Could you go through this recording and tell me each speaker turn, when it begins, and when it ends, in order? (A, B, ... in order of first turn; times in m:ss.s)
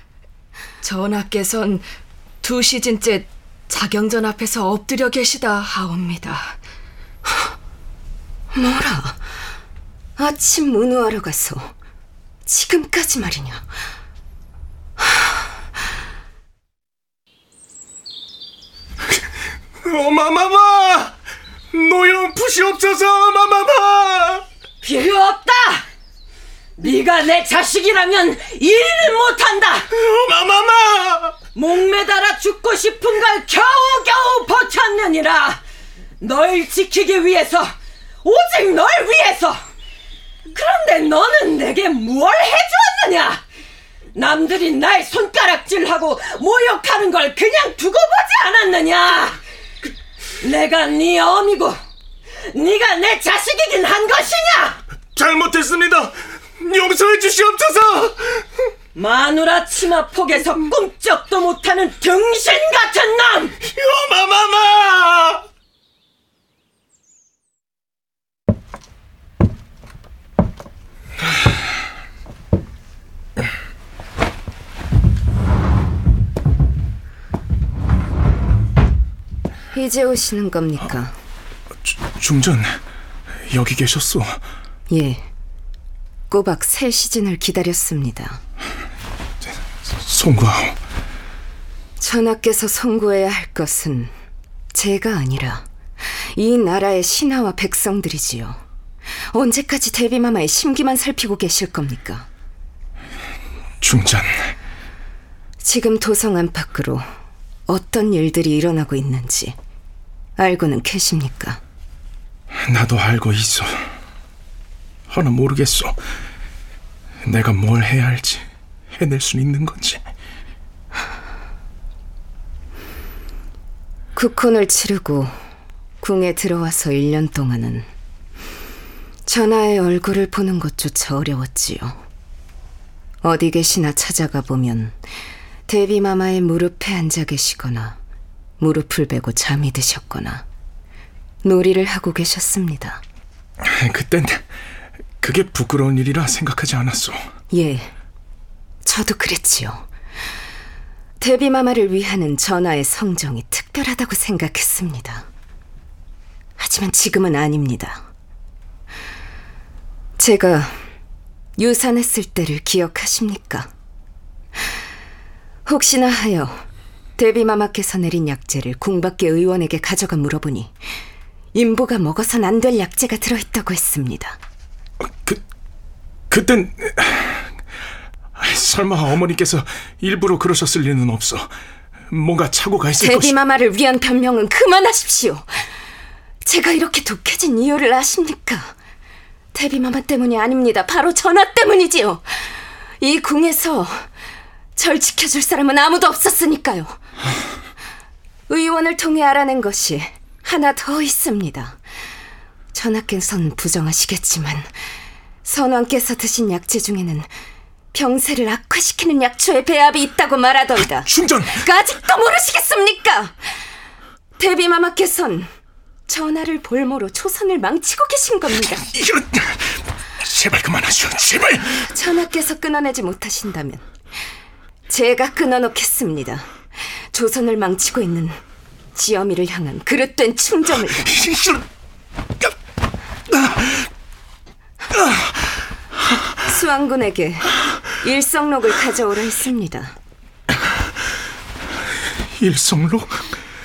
0:00.8-0:01.8 A
0:01.2-0:01.6 B
0:02.4-0:06.5 A
0:05.1-0:06.2 B
0:08.5-0:09.2 B
0:10.2-0:11.7 B
0:12.5-0:13.7 B
0:15.0-0:15.2 B
0:19.8-0:21.1 C
0:21.7-0:24.4 C
0:24.8-0:25.8 D
0:26.8-0:29.9 D
0:30.0-0:31.3 C
0:31.5-0:35.6 D
0:36.2-0:39.6 D
0:40.5-0:43.4 D
0:44.1-0:49.4 D
0:50.4-0:51.8 D
0:52.5-0:54.8 D
0:55.2-0:58.4 C
0:58.9-1:03.5 D
1:03.7-1:05.4 C
1:19.7-1:21.1 B
1:21.8-1:22.8 C
1:23.5-1:24.4 C
1:24.9-1:25.2 B
1:26.3-1:28.4 B
1:30.0-1:30.8 C
1:32.0-1:34.1 B
1:34.7-1:35.6 B
1:36.3-1:38.6 B
1:39.3-1:42.2 B
1:43.8-1:44.5 C
1:45.6-1:47.0 B
1:47.7-1:49.6 B
1:50.4-1:51.6 B
1:52.6-1:53.8 C
1:55.1-1:56.0 C
1:57.2-1:58.4 C
1:59.0-2:00.0 C
2:04.1-2:05.3 B
2:06.0-2:07.9 B
2:09.3-2:12.0 B
2:13.2-2:15.0 B
2:15.7-2:18.0 B
2:18.6-2:20.4 B
2:21.4-2:23.0 B
2:23.8-2:24.4 C
2:25.2-2:27.2 C
2:27.5-2:27.9 B
2:28.8-2:29.8 B
2:31.2-2:35.2 B
2:36.6-2:38.0 B
2:40.2-2:40.8 B
2:41.6-2:43.7 B
2:45.7-2:46.6 B
2:47.2-2:50.8 B
2:51.5-2:54.4 B
2:55.0-2:55.4 C
2:56.3-2:57.4 C
2:58.4-3:01.5 C
3:02.1-3:03.4 C
3:03.0-3:05.5 B
3:06.4-3:08.7 B
3:09.5-3:12.2 B
3:13.0-3:14.0 B
3:14.8-3:17.0 B
3:18.5-3:21.8 B
3:22.7-3:24.7 B
3:25.4-3:27.3 B
3:27.9-3:33.4 B
3:30.9-3:31.6 C
3:34.4-3:35.5 B
3:36.1-3:38.9 B
3:38.9-3:41.7 C
3:41.9-3:43.8 B
3:44.9-3:46.5 B
3:47.1-3:48.4 B
3:49.0-3:51.1 B
3:51.2-3:51.6 C
3:53.3-3:53.7 C
3:56.4-4:00.0 B
4:02.4-4:03.3 C